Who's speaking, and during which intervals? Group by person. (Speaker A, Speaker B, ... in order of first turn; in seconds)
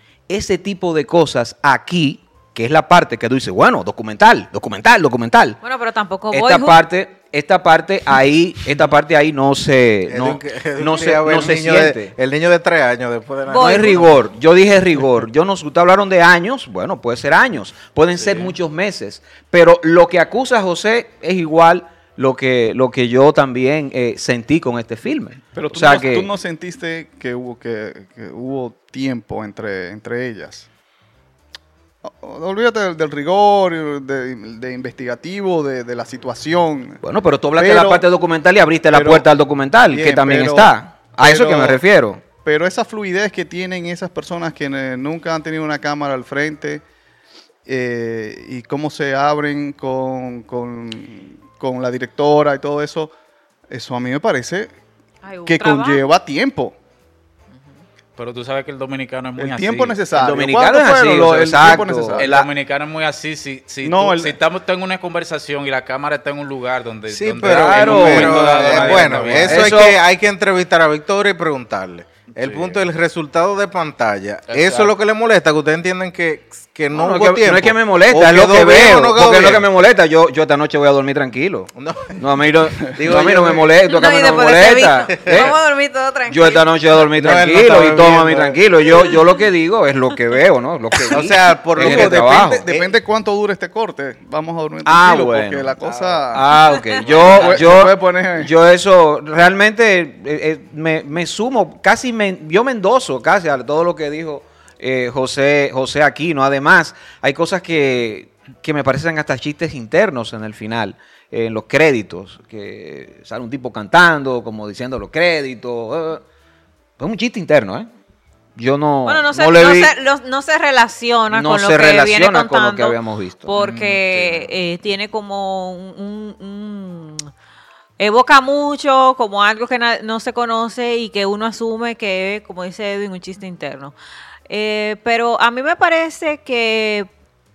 Speaker A: 0.3-5.6, 6.3-12.1, 13.6-26.3, 37.0-42.2, 60.1-62.5, 67.4-70.0, 76.9-85.5, 86.3-92.7, 94.8-116.2, 117.0-117.9, 118.5-119.9, 121.3-123.5
Speaker B: 5.6-6.8, 13.4-14.1, 55.2-56.0, 83.8-86.7, 96.6-97.0, 119.0-127.3, 128.0-133.9, 134.5-137.1
Speaker C: 10.1-14.2, 67.1-79.7, 81.7-82.3, 83.0-83.7, 87.1-89.2, 91.1-92.9
Speaker D: 18.2-18.5, 58.2-60.0, 62.2-69.8, 72.4-72.8, 74.5-74.9, 123.5-124.5
Speaker E: 25.5-30.7, 32.0-37.0, 37.5-38.0, 38.9-39.2, 39.9-41.8, 42.3-46.8, 47.6-53.1, 53.7-54.8, 55.5-56.8, 59.4-62.3, 63.8-64.4, 91.8-98.5